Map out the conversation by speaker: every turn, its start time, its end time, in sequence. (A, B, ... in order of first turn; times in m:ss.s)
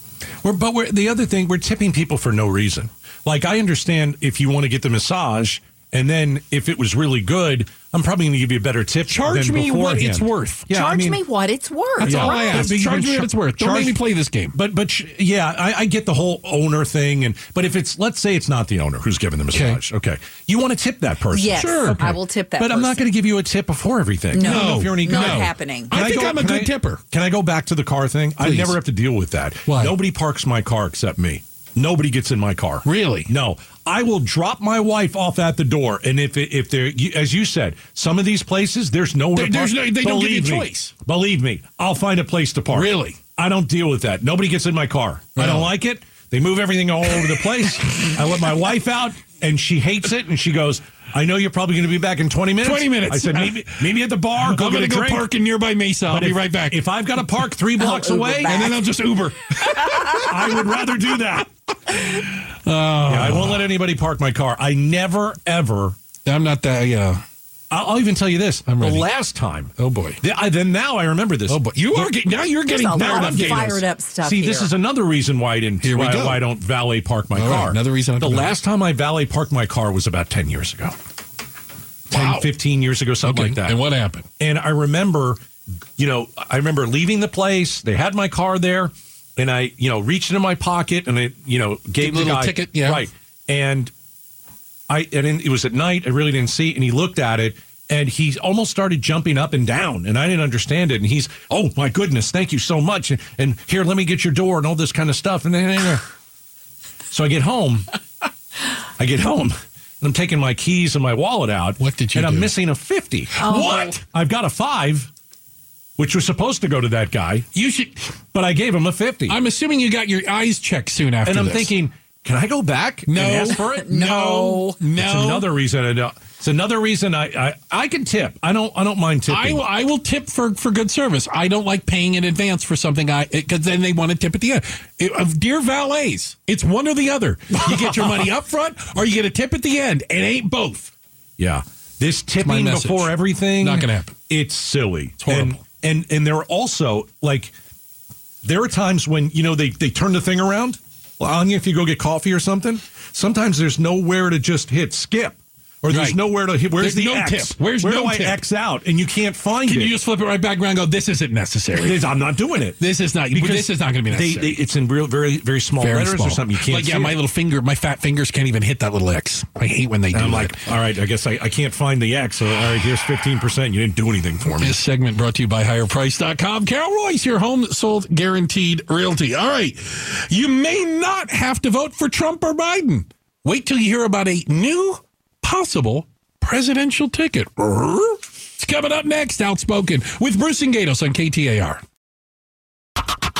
0:00.4-0:11.2 A
0:09.1-0:10.6 B
0:10.7-0:12.7 C
0:12.0-0:14.6 B
0:12.0-0:14.0 A
0:14.5-0:55.3 A
0:19.5-0:19.8 B
0:21.3-0:23.0 C
0:21.5-0:22.0 B
0:24.3-0:25.9 C
0:24.4-0:27.0 B
0:28.4-0:28.8 B
0:29.7-0:29.9 B
0:32.8-0:33.3 B
0:39.3-0:40.9 B
0:42.7-0:43.2 B
0:45.4-0:45.7 B
0:52.6-0:56.8 B
0:56.1-0:58.7 A
0:57.8-0:58.8 C
0:58.4-1:00.6 B
1:00.0-1:01.5 A
1:01.9-1:03.7 B
1:03.1-1:06.0 A
1:06.2-1:07.2 B
1:07.7-1:12.1 A
1:08.6-1:09.1 B
1:09.8-1:10.2 B
1:11.5-1:13.8 B
1:12.7-1:14.7 C
1:12.9-1:20.9 A
1:15.8-1:16.4 B
1:17.3-1:18.5 B
1:22.1-1:22.5 B
1:22.1-1:23.8 A
1:23.2-1:24.2 B
1:24.4-1:25.4 A
1:26.0-1:33.9 A
1:32.0-1:33.0 B
1:34.9-1:46.0 A
1:47.1-1:47.8 A
1:49.0-1:55.1 A
1:51.8-1:52.5 B
1:53.3-1:54.0 B
1:53.4-1:53.9 C
1:56.0-1:57.5 A
1:57.5-1:58.1 B
1:58.3-1:59.4 A
1:59.3-2:01.7 B
2:01.2-2:09.6 A
2:03.1-2:05.5 B
2:03.7-2:04.8 C
2:09.3-2:20.9 B
2:17.6-2:18.2 A
2:21.4-2:27.5 A
2:22.4-2:24.2 B
2:25.2-2:25.6 B
2:28.4-2:40.0 A
2:35.9-2:36.2 B
2:36.7-2:38.4 B
2:39.7-2:42.0 B
2:41.7-2:42.8 A
2:42.8-2:44.6 B
2:43.3-2:47.2 A
2:45.8-2:50.6 B
2:50.1-2:54.8 A
2:54.6-3:11.8 B